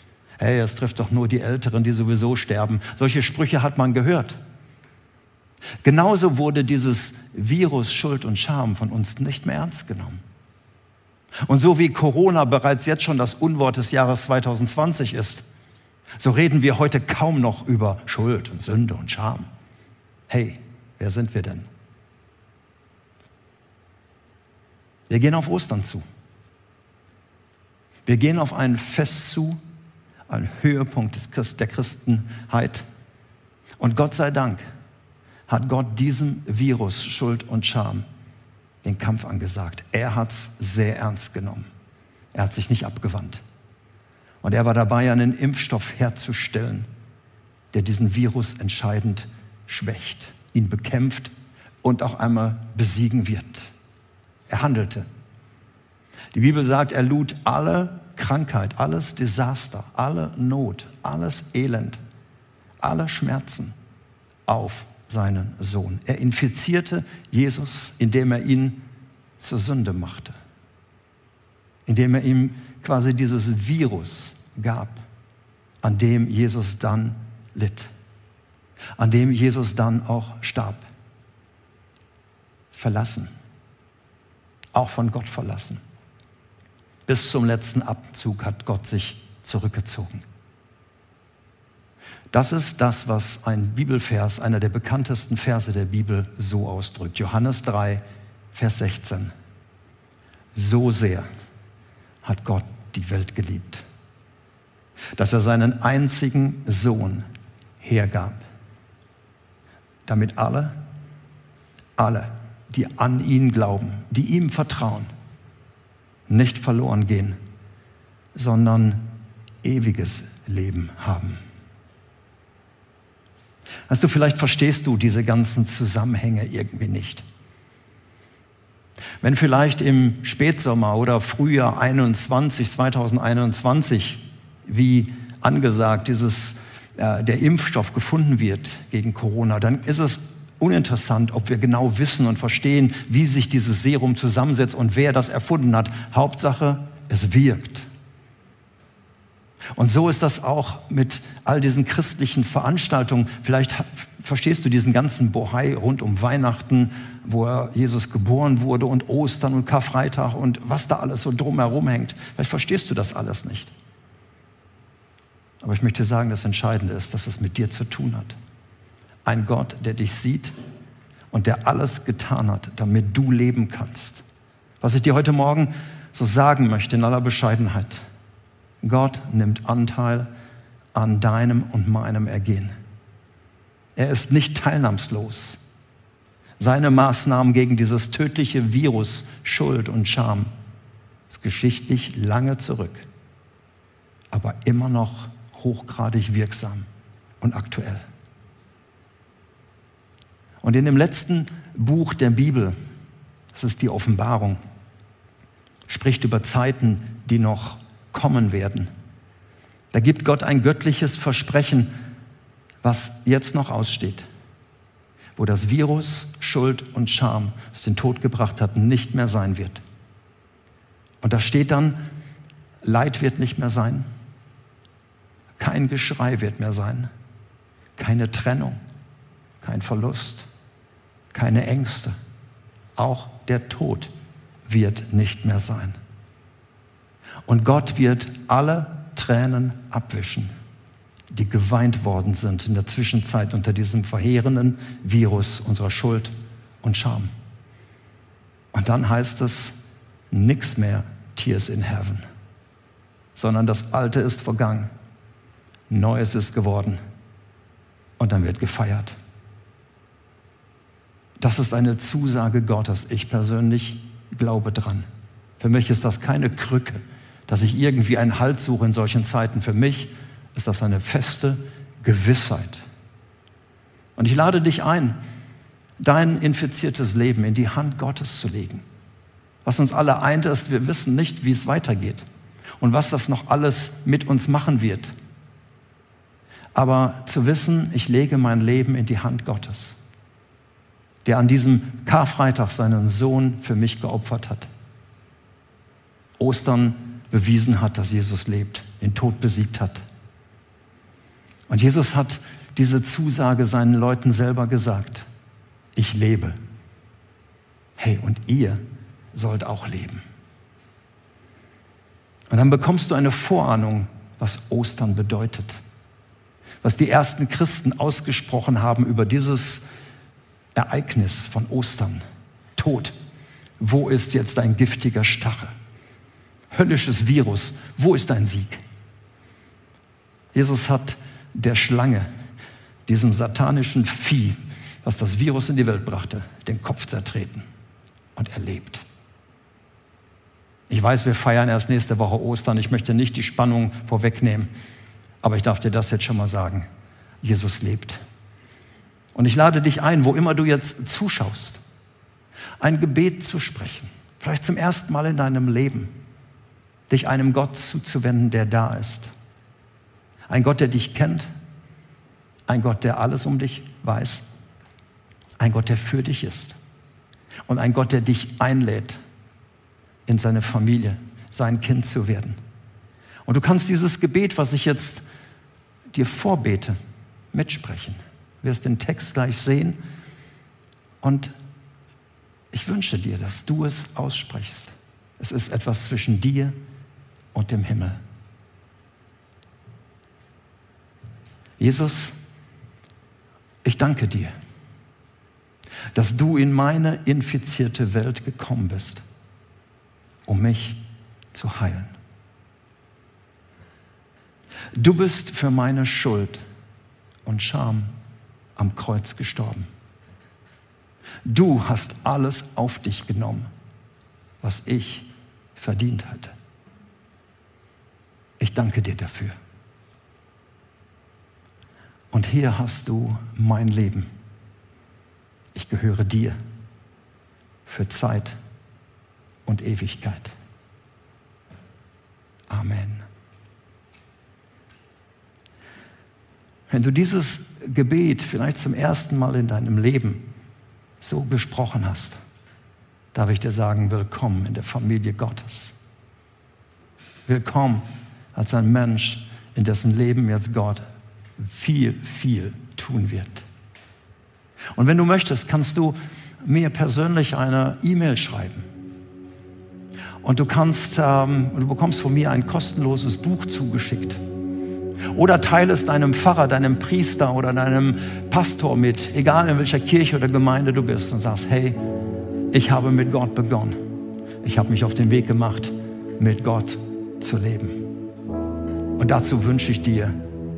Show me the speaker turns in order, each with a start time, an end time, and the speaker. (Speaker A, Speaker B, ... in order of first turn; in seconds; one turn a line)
Speaker A: 0.4-4.4
Speaker A: 5.8-10.2
Speaker A: 11.4-15.4
Speaker A: 16.2-19.5
Speaker A: 20.3-21.7
Speaker A: 25.1-26.0
Speaker A: 28.1-29.6
Speaker A: 30.3-32.8
Speaker A: 33.8-34.6
Speaker A: 35.5-38.0
Speaker A: 38.8-41.7
Speaker A: 42.3-43.4
Speaker A: 44.4-46.9
Speaker A: 47.7-51.3
Speaker A: 51.8-53.7
Speaker A: 54.5-55.1
Speaker A: 56.3-62.0
Speaker A: 62.8-63.7
Speaker A: 64.5-68.8
Speaker A: 69.4-70.4
Speaker A: 71.8-75.0
Speaker A: 75.8-77.9
Speaker A: 79.0-80.8
Speaker A: 82.7-83.3
Speaker A: 84.7-85.8
Speaker A: 87.1-90.2
Speaker A: 92.3-99.3
Speaker A: 100.5-101.3
Speaker A: 102.2-103.8
Speaker A: 105.2-107.2
Speaker A: 107.8-108.4
Speaker A: 110.0-110.8
Speaker A: 112.0-115.1
Speaker A: 116.3-117.4
Speaker A: 118.3-119.0
Speaker A: 119.6-121.4
Speaker A: 123.9-127.2
Speaker A: 129.2-147.9
Speaker A: 149.7-163.7
Speaker A: 165.6-168.4
Speaker A: 169.2-170.5
Speaker A: 171.3-174.2
Speaker A: 174.8-178.0
Speaker A: 178.8-180.3
Speaker A: 180.9-182.7
Speaker A: 183.9-185.6
Speaker A: 186.6-190.5
Speaker A: 191.3-193.1
Speaker A: 194.3-196.9
Speaker A: 197.4-198.0
Speaker A: 200.6-202.7
Speaker A: 203.5-204.6
Speaker A: 205.9-208.9
Speaker A: 209.9-211.9
Speaker A: 212.8-214.2
Speaker A: 215.3-219.8
Speaker A: 221.2-222.0
Speaker A: 222.8-224.1
Speaker A: 225.6-227.1
Speaker A: 228.0-228.8
Speaker A: 229.6-230.5
Speaker A: 231.3-232.1
Speaker A: 233.0-234.1
Speaker A: 234.7-236.0
Speaker A: 237.5-240.5
Speaker A: 241.3-247.3
Speaker A: 248.7-249.7
Speaker A: 250.3-252.2
Speaker A: 253.3-254.9
Speaker A: 255.9-257.0
Speaker A: 258.2-259.1
Speaker A: 261.4-265.1
Speaker A: 265.6-272.8
Speaker A: 274.1-275.1
Speaker A: 276.0-278.8
Speaker A: 279.6-282.2
Speaker A: 282.8-285.1
Speaker A: 286.7-290.0
Speaker A: 291.2-294.7
Speaker A: 296.4-300.0
Speaker A: 301.7-305.2
Speaker A: 305.9-306.5
Speaker A: 308.0-308.8
Speaker A: 309.3-310.2
Speaker A: 312.5-315.8
Speaker A: 316.8-319.8
Speaker A: 320.7-322.2
Speaker A: 322.8-323.1
Speaker A: 323.8-325.7
Speaker A: 326.7-328.8
Speaker A: 330.5-332.2
Speaker A: 333.1-337.6
Speaker A: 338.4-339.0
Speaker A: 340.9-344.7
Speaker A: 345.4-346.9
Speaker A: 347.4-348.2
Speaker A: 349.3-351.8
Speaker A: 352.8-356.1
Speaker A: 357.1-359.3
Speaker A: 360.5-361.5
Speaker A: 362.7-364.4
Speaker A: 365.6-366.8
Speaker A: 367.7-369.2
Speaker A: 370.3-372.6
Speaker A: 373.4-375.2
Speaker A: 376.1-376.9
Speaker A: 377.5-380.0
Speaker A: 381.2-381.5
Speaker A: 382.7-386.7
Speaker A: 387.5-388.2
Speaker A: 391.8-392.3
Speaker A: 393.8-394.5
Speaker A: 396.1-399.2
Speaker A: 400.5-401.0
Speaker A: 401.5-402.1
Speaker A: 404.9-406.6
Speaker A: 407.4-408.1
Speaker A: 408.8-409.9
Speaker A: 411.4-413.7
Speaker A: 414.6-416.5
Speaker A: 418.6-419.6
Speaker A: 422.3-424.3
Speaker A: 425.7-426.6
Speaker A: 427.9-428.6
Speaker A: 429.6-430.5
Speaker A: 432.7-433.2
Speaker A: 436.9-440.4
Speaker A: 441.2-442.4
Speaker A: 443.3-445.9
Speaker A: 447.5-451.0
Speaker A: 451.6-453.6
Speaker A: 454.9-458.8
Speaker A: 460.4-464.4
Speaker A: 465.3-472.0
Speaker A: 472.7-473.9
Speaker A: 474.6-478.0
Speaker A: 479.2-480.3